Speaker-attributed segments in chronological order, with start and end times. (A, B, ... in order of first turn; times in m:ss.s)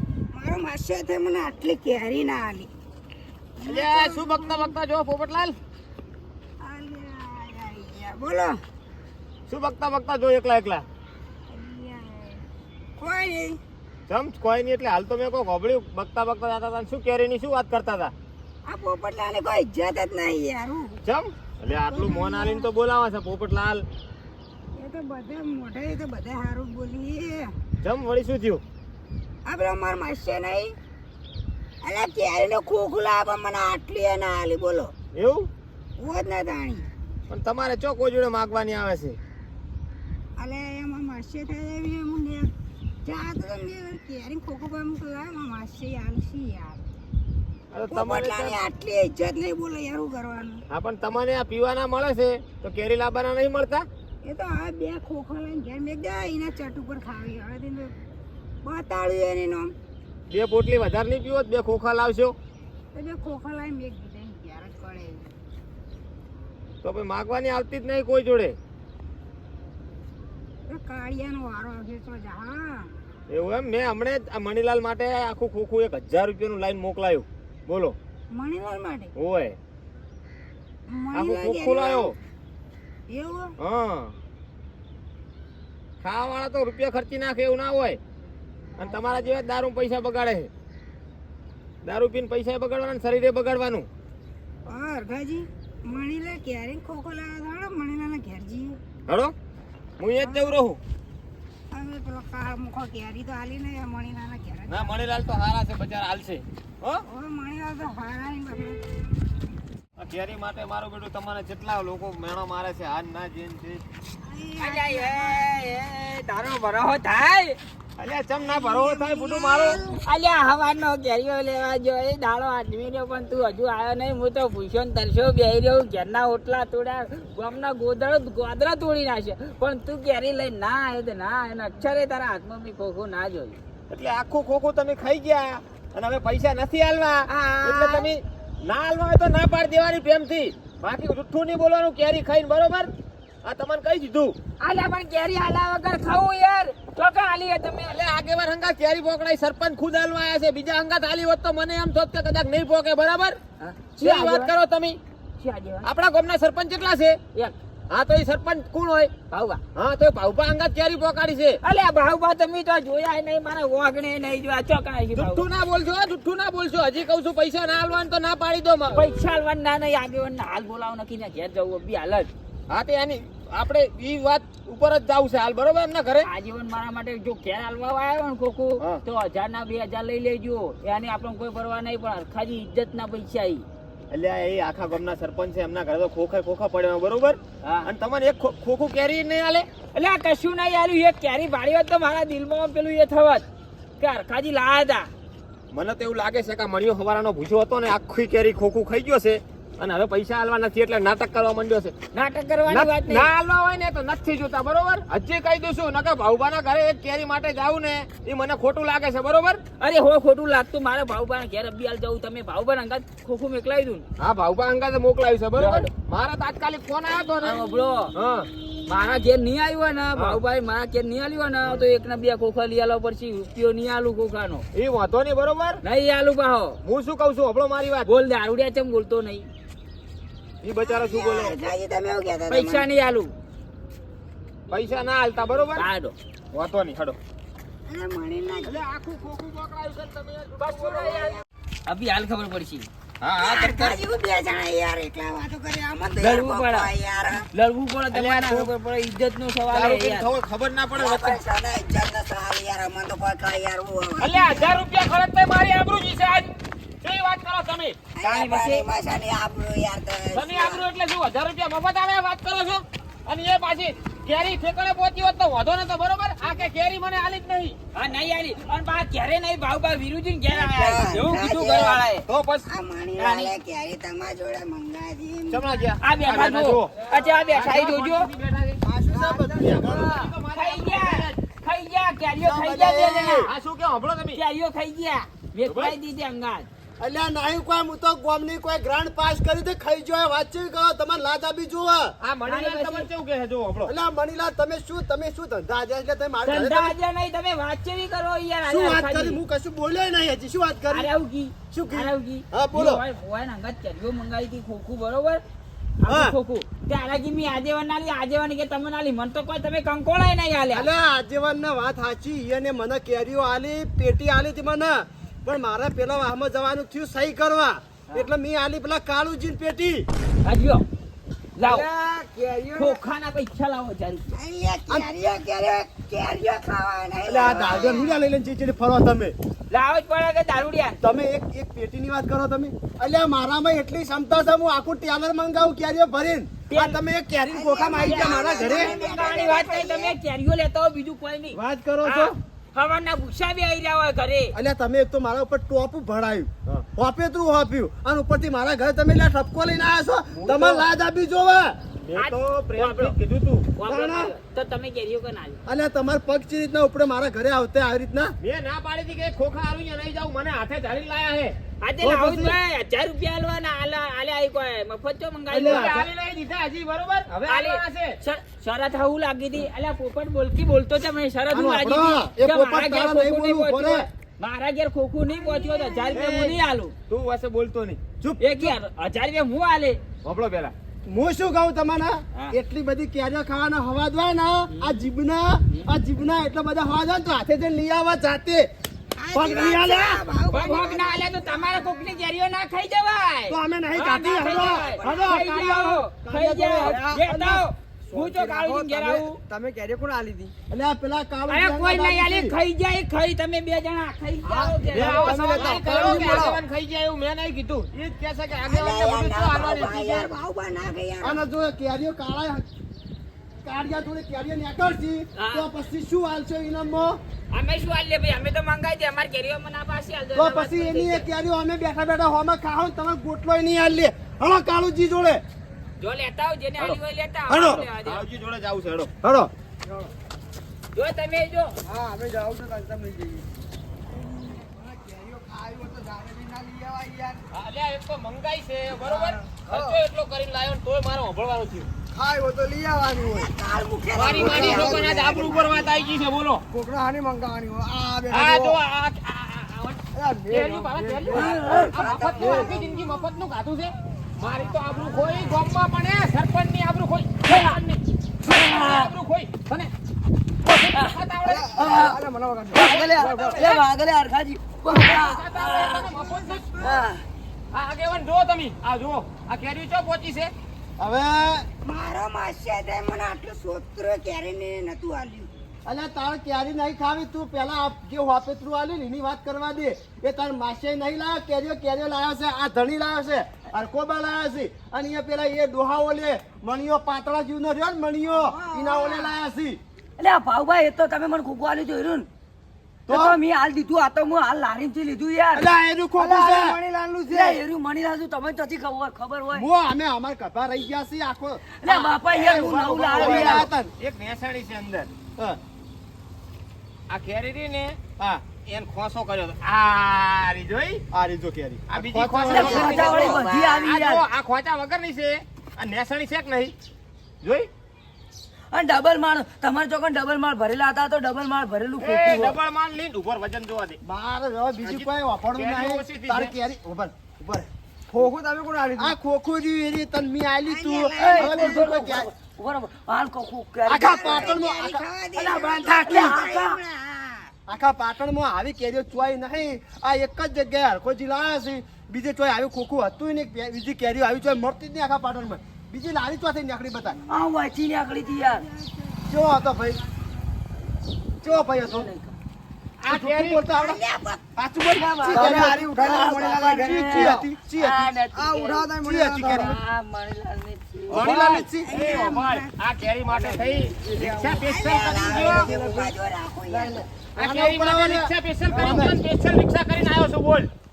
0:00.3-0:02.7 A
0:03.6-0:04.8 A
0:03.6-0:05.6 B
0:06.6-0:08.6 A
0:09.5-0:10.8 B
0:11.5-0:12.4 A
0:13.0-0:13.6 A
0:14.1-0:18.1 B
0:18.6-0:21.0 A
0:21.0-0:23.8 B
0:21.9-0:22.7 A
0:24.8-0:27.5 A
0:27.8-0:28.6 B
0:29.4-0:30.7 A
0:31.8-0:34.9 A
0:35.1-0:35.5 B
0:36.0-0:36.9 A
0:37.3-0:39.2 B
0:40.4-0:42.5 A
0:43.0-0:46.8 A
0:47.7-0:48.6 B
0:47.9-0:50.6 A
0:50.7-0:53.8 B
0:54.2-0:57.9 A
0:58.6-0:59.7 A
1:00.3-1:02.4 B
1:02.9-1:05.3 A
1:06.8-1:08.6 B
1:10.7-1:12.9 A
1:13.3-1:18.0 B
1:18.3-1:19.1 A
1:19.2-1:19.6 B
1:20.9-1:22.1 A
1:21.1-1:22.1 B
1:23.1-1:23.5 A
1:23.6-1:24.1 B
1:26.0-1:28.0 B
1:28.8-1:30.5 B
1:28.8-1:29.3 A
1:31.8-1:33.9 B
1:34.7-1:38.8 A
1:39.1-1:39.3 B
1:40.0-1:40.8 B
1:40.2-1:40.6 A
1:41.7-1:45.1 A
1:44.7-1:47.0 B
1:47.1-1:48.8 A
1:50.0-1:53.8 B
1:54.2-1:55.4 A
1:54.6-1:57.6 C
1:58.0-1:59.8 B
1:58.4-2:00.0 A
2:00.0-2:13.6 C
2:13.9-2:22.9 B
2:17.3-2:18.1 C
2:23.4-2:24.4 B
2:24.6-2:28.0 C
2:27.9-2:33.4 B
2:33.6-2:34.5 C
2:34.0-2:35.0 B
2:35.4-2:35.9 C
2:35.8-2:37.2 B
2:37.9-2:39.1 B
2:39.3-2:39.6 C
2:39.8-2:41.6 B
2:41.6-2:45.4 C
2:45.2-2:49.0 B
2:48.9-2:52.3 C
2:52.7-2:56.3 B
2:56.2-3:03.7 C
3:04.1-3:09.7 B
3:09.9-3:13.5 C
3:14.0-3:15.1 C
3:15.7-3:21.9 B
3:22.1-3:23.3 C
3:22.7-3:29.6 B
3:29.8-3:34.1 C
3:34.2-3:37.6 B
3:35.6-3:35.9 C
3:37.4-3:38.1 C
3:38.2-3:38.5 B
3:38.8-3:44.6 C
3:44.8-3:45.8 B
3:45.8-3:46.8 C
3:46.8-3:48.1 B
3:48.0-3:49.5 C
3:50.6-3:51.6 B
3:50.8-3:52.9 A
3:52.5-3:53.3 C
3:54.7-3:55.9 B
3:55.8-3:56.1 C
3:56.5-3:57.2 B
3:57.8-3:58.8 A
3:58.6-4:01.2 B
4:00.6-4:02.9 C
4:01.0-4:01.4 A
4:03.2-4:04.0 B
4:03.4-4:07.4 A
4:06.2-4:06.9 C
4:07.5-4:10.3 C
4:08.1-4:08.7 B
4:09.7-4:11.4 B
4:11.0-4:14.8 A
4:14.2-4:18.0 B
4:18.2-4:20.8 A
4:18.2-4:18.9 C
4:20.3-4:27.8 B
4:28.0-4:32.2 C
4:30.5-4:32.0 A
4:32.3-4:33.5 B
4:32.7-4:35.9 A
4:35.5-4:38.8 B
4:36.0-4:38.3 C
4:38.8-4:40.1 D
4:39.1-4:40.3 E
4:39.5-4:41.4 B
4:40.5-4:43.5 C
4:42.4-4:43.5 D
4:43.5-4:44.4 B
4:44.3-4:46.7 C
4:45.7-4:46.0 B
4:47.0-4:52.2 D
4:52.2-4:53.9 B
4:52.5-4:53.1 C
4:53.8-4:57.0 D
4:56.4-4:59.4 C
4:58.7-5:01.1 D
5:00.9-5:05.4 C
5:01.7-5:03.0 D
5:06.0-5:10.9 C
5:06.1-5:06.4 D
5:10.7-5:20.1 D
5:20.4-5:20.8 C
5:21.6-5:21.9 C
5:21.6-5:23.0 E
5:22.8-5:24.3 C
5:24.3-5:28.2 A
5:27.3-5:29.4 D
5:29.7-5:31.0 C
5:31.0-5:39.0 D
5:36.7-5:37.0 C
5:37.5-5:40.2 A
5:38.0-5:44.6 C
5:41.5-5:42.3 D
5:44.5-5:51.8 D
5:50.3-5:50.8 B
5:52.0-5:53.7 B
5:52.2-5:53.2 C
5:53.8-5:55.6 C
5:53.9-5:54.3 D
5:55.7-5:58.3 D
5:58.4-6:01.6 B
6:01.8-6:06.0 C
6:02.0-6:02.6 D
6:05.5-6:06.0 D
6:05.6-6:08.2 B
6:07.4-6:16.9 C
6:11.5-6:14.1 D
6:15.3-6:16.2 A
6:16.1-6:18.0 B
6:18.2-6:18.7 D
6:18.4-6:20.0 C
6:20.2-6:20.7 B
6:21.1-6:28.7 D
6:24.7-6:25.1 C
6:29.2-6:32.1 A
6:29.3-6:30.2 D
6:30.5-6:39.4 C
6:33.5-6:37.0 D
6:34.4-6:35.2 A
6:36.8-6:40.5 E
6:40.7-6:42.6 D
6:41.5-6:46.4 C
6:44.5-6:46.6 E
6:44.8-6:50.3 B
6:48.7-6:51.4 A
6:51.2-6:52.6 D
6:53.6-6:57.2 D
6:55.4-6:55.7 C
6:57.5-7:01.3 C
7:00.3-7:05.4 D
7:06.0-7:08.2 C
7:07.5-7:07.8 D
7:07.5-7:09.1 B
7:09.2-7:09.5 D
7:09.9-7:10.1 E
7:11.0-7:11.8 C
7:11.8-7:13.5 E
7:14.2-7:17.4 E
7:17.5-7:21.9 B
7:19.0-7:20.0 E
7:22.1-7:23.5 E
7:23.2-7:25.9 A
7:24.1-7:26.6 B
7:24.3-7:25.5 E
7:26.7-7:28.8 E
7:28.3-7:39.9 B
7:30.2-7:31.8 E
7:31.3-7:33.2 A
7:31.6-7:32.0 F
7:32.4-7:32.7 E
7:38.4-7:39.1 F
7:40.6-7:41.8 B
7:40.9-7:41.2 F
7:41.4-7:43.7 E
7:41.8-7:42.2 F
7:42.7-7:46.1 F
7:42.7-7:43.9 B
7:44.9-7:47.0 B
7:46.1-7:47.0 A
7:46.8-7:47.2 F
7:47.7-7:50.5 B
7:51.0-7:51.7 D
7:51.8-7:55.5 A
7:55.8-8:09.8 D
8:08.4-8:09.3 A
8:10.2-8:12.3 F
8:13.1-8:13.4 D
8:13.1-8:15.6 F
8:15.5-8:16.8 D
8:16.2-8:19.7 F
8:16.2-8:17.6 E
8:19.5-8:21.6 D
8:21.8-8:23.7 F
8:21.9-8:25.1 B
8:22.3-8:23.9 D
8:27.1-8:28.0 B
8:28.5-8:31.0 B
8:31.1-8:33.3 D
8:31.9-8:36.7 B
8:32.5-8:33.9 A
8:32.5-8:34.2 F
8:37.4-8:37.7 B
8:38.7-8:42.6 F
8:42.0-8:44.0 B
8:44.0-8:47.7 D
8:44.8-8:46.5 B
8:48.1-8:49.1 E
8:49.0-8:52.3 D
8:50.7-8:51.9 A
8:51.1-8:54.5 F
8:53.9-8:56.4 D
8:54.1-8:57.5 A
8:56.1-8:56.8 F
8:57.7-9:07.2 D
9:07.3-9:08.6 F
9:08.3-9:08.9 A
9:09.3-9:10.0 D
9:11.4-9:12.1 D
9:11.5-9:12.4 F
9:13.0-9:13.7 B
9:13.1-9:14.0 D
9:13.7-9:14.4 A
9:14.6-9:18.1 D
9:15.0-9:18.9 F
9:15.2-9:15.7 A
9:15.3-9:17.4 E
9:18.3-9:19.7 E
9:19.0-9:19.8 D
9:19.4-9:19.8 B
9:19.6-9:21.3 F
9:21.1-9:21.9 D
9:21.1-9:25.7 B
9:21.8-9:22.7 A
9:23.8-9:24.6 E
9:24.5-9:27.0 A
9:25.2-9:26.1 E
9:26.7-9:29.2 D
9:27.4-9:30.7 B